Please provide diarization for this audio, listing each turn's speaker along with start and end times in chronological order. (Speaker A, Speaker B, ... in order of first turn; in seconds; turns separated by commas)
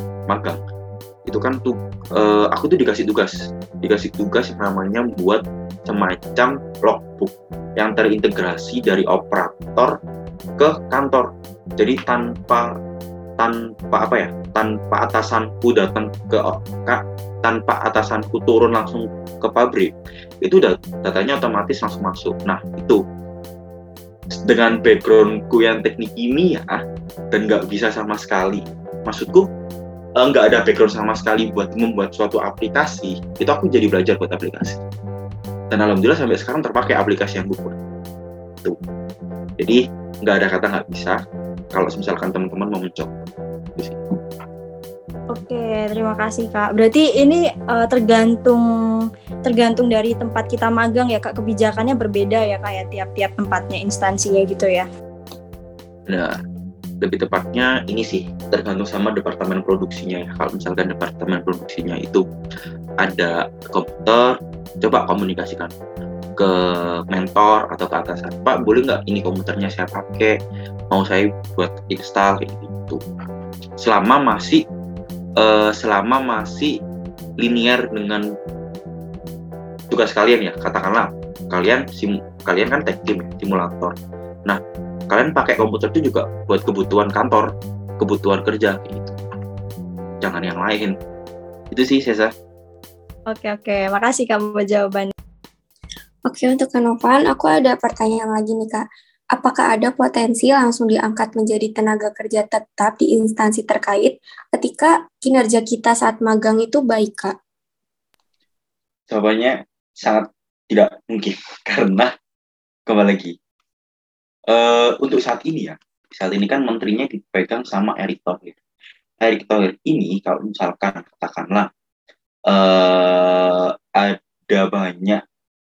Speaker A: 0.3-0.6, Speaker A: 1.3-10.0, Speaker A: 10.6-12.7, Speaker A: 13.4-23.0, Speaker A: 24.4-26.8, Speaker A: 27.3-29.5, Speaker A: 30.2-34.8, Speaker A: 35.7-37.8, Speaker A: 39.6-41.2, Speaker A: 41.8-44.2, Speaker B: 45.3-48.7, Speaker B: 49.5-54.9, Speaker A: 56.1-56.4, Speaker A: 57.0-62.2, Speaker A: 63.0-65.7, Speaker A: 66.4-70.4, Speaker A: 70.9-73.0, Speaker A: 73.8-74.6, Speaker A: 75.4-76.8, Speaker A: 77.4-78.3, Speaker A: 79.9-84.0, Speaker A: 84.5-87.5, Speaker A: 88.0-89.2, Speaker A: 90.2-90.9, Speaker A: 91.7-92.3, Speaker B: 93.3-95.1, Speaker C: 96.3-107.3, Speaker A: 109.1-112.1, Speaker A: 112.9-113.4, Speaker A: 114.5-118.6, Speaker A: 119.2-121.7, Speaker A: 122.5-125.2